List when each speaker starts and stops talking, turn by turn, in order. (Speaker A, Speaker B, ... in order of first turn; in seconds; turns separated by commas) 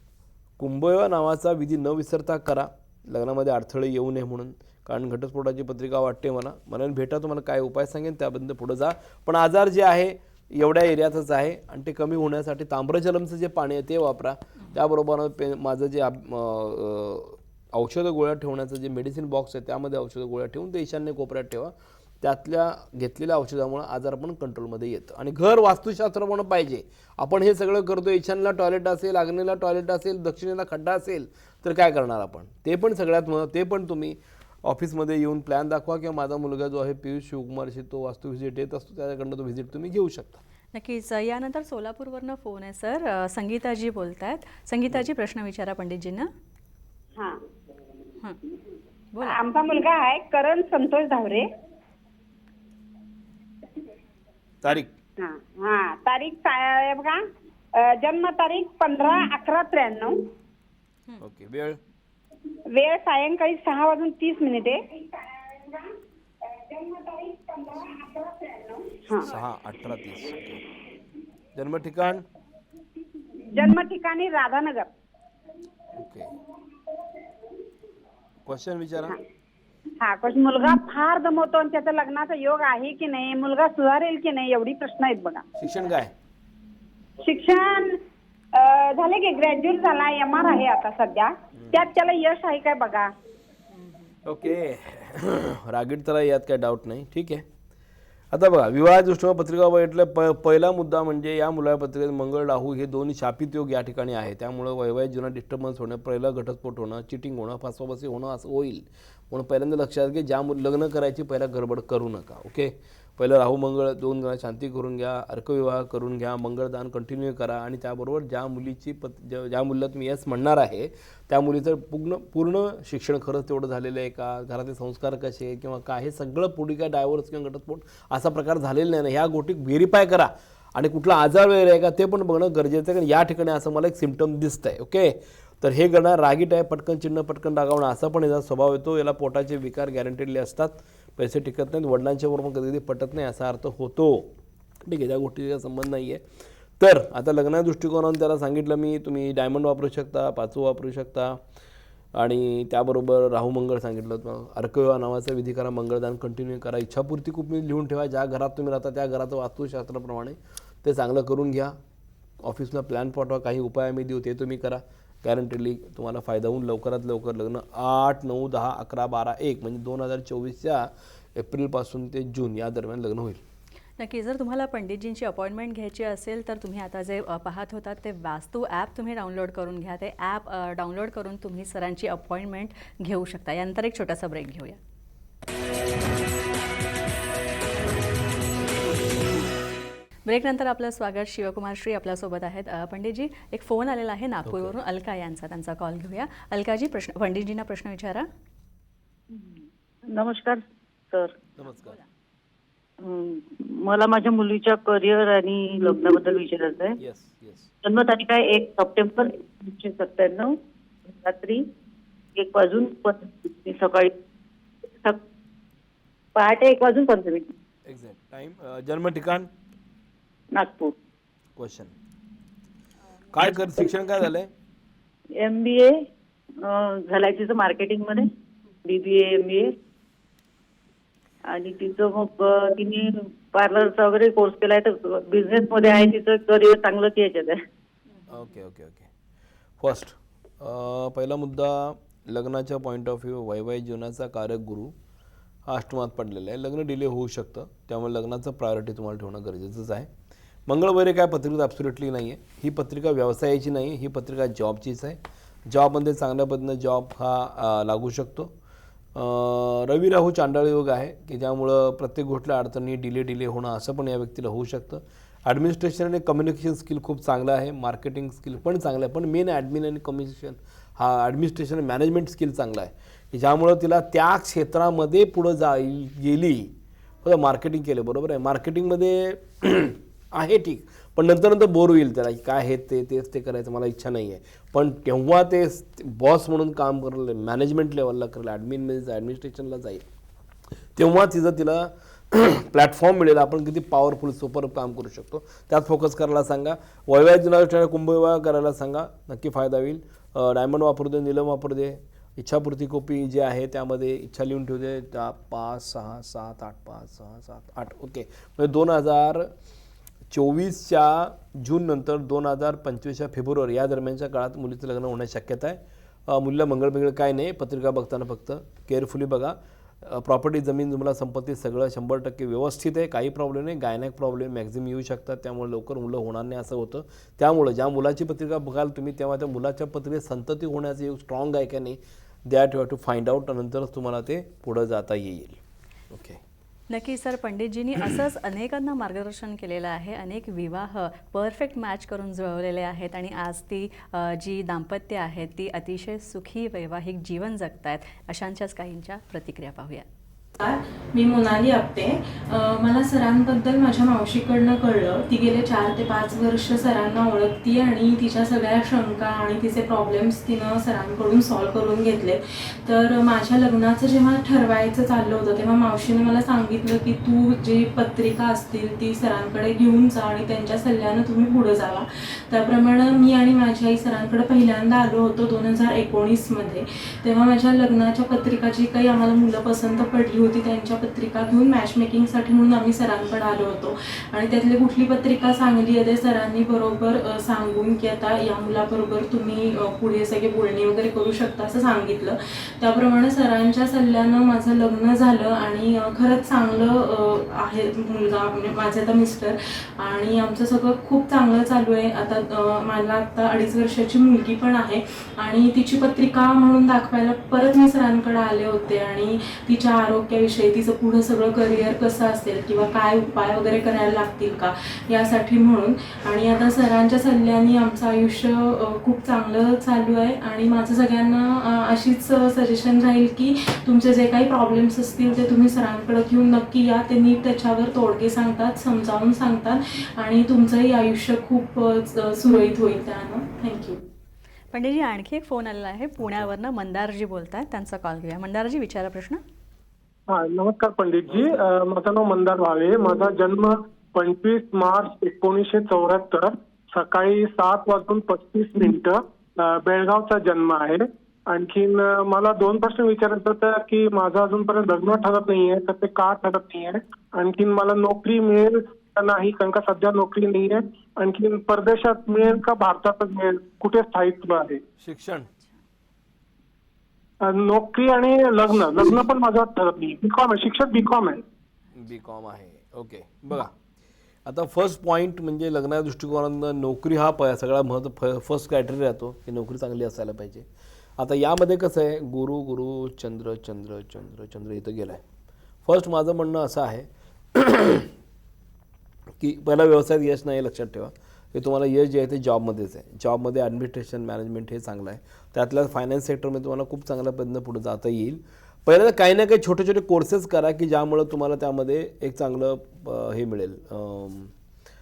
Speaker A: 0.6-40.4, Speaker B: 40.7-46.3, Speaker C: 47.1-47.4, Speaker B: 49.1-49.4, Speaker C: 49.2-51.5, Speaker A: 54.6-54.9, Speaker C: 55.2-57.2, Speaker C: 57.7-60.3, Speaker A: 61.2-61.8, Speaker C: 62.7-69.3, Speaker A: 69.2-70.6, Speaker A: 71.5-72.2, Speaker C: 73.5-74.9, Speaker A: 76.0-76.3, Speaker A: 78.5-79.2, Speaker C: 80.0-85.5, Speaker A: 85.5-86.1, Speaker C: 87.2-88.0, Speaker C: 88.5-93.1, Speaker A: 94.2-97.5, Speaker A: 98.3-144.3, Speaker A: 144.8-146.2, Speaker A: 146.8-151.4, Speaker A: 152.1-161.8, Speaker A: 162.4-173.4, Speaker B: 174.0-184.8, Speaker B: 190.3-198.3, Speaker A: 194.4-194.7, Speaker D: 200.1-201.3, Speaker A: 201.6-202.0, Speaker B: 201.6-202.0, Speaker D: 203.0-207.0, Speaker A: 207.0-207.7, Speaker D: 207.8-210.6, Speaker D: 211.1-211.6, Speaker D: 212.3-214.1, Speaker D: 216.3-217.5, Speaker A: 217.8-219.5, Speaker D: 220.5-220.9, Speaker A: 221.6-221.9, Speaker A: 223.3-224.5, Speaker D: 225.4-226.0, Speaker D: 226.6-228.2, Speaker D: 228.8-229.7, Speaker D: 231.5-237.6, Speaker A: 238.3-239.1, Speaker A: 239.8-244.9, Speaker A: 245.7-250.1, Speaker A: 250.7-258.5, Speaker A: 259.1-290.0, Speaker A: 290.9-309.5, Speaker A: 310.3-335.6, Speaker A: 336.1-336.4, Speaker B: 336.9-350.1, Speaker E: 350.6-434.0, Speaker B: 434.7-439.4, Speaker A: 436.2-436.5, Speaker F: 440.3-464.8, Speaker A: 441.2-441.6, Speaker A: 465.0-465.5, Speaker B: 465.5-465.7, Speaker F: 467.4-471.4, Speaker A: 471.9-473.7, Speaker A: 474.4-480.7, Speaker A: 481.2-485.2, Speaker A: 485.8-488.1, Speaker A: 489.4-504.5